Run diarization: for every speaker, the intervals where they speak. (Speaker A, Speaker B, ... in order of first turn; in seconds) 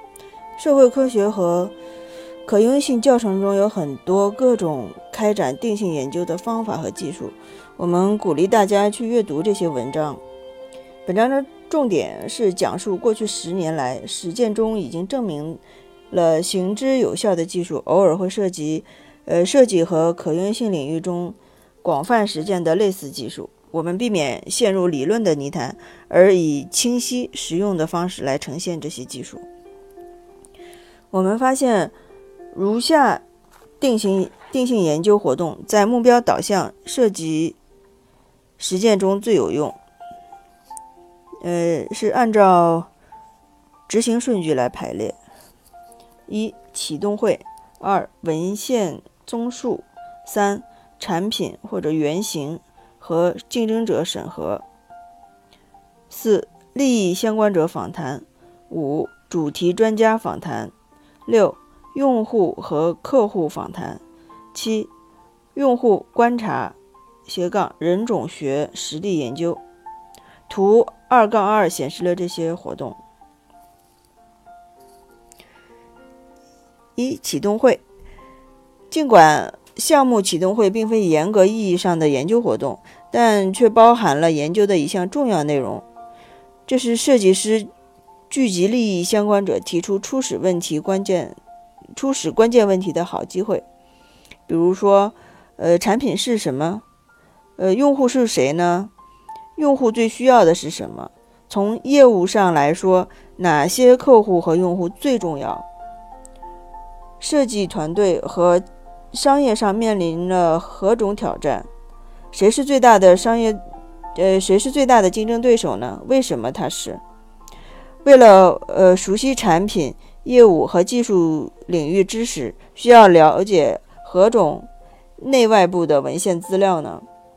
Speaker A: 0.6-1.7, 2.5-10.2, 11.1-29.4, 31.1-31.9, 32.5-33.2, 33.8-37.5, 38.6-39.8, 41.4-42.9, 43.9-45.2, 46.3-54.6, 56.1-60.7, 61.2-64.0, 64.5-64.9, 65.5-66.8, 67.3-69.6, 70.5-73.0, 77.0-77.8, 78.9-85.8, 86.7-87.7, 88.3-91.3, 92.0-93.6, 94.5-96.8, 97.6-98.9, 99.6-105.6, 107.2-111.7, 112.3-113.6, 114.1-117.0, 118.0-124.7, 125.2-127.0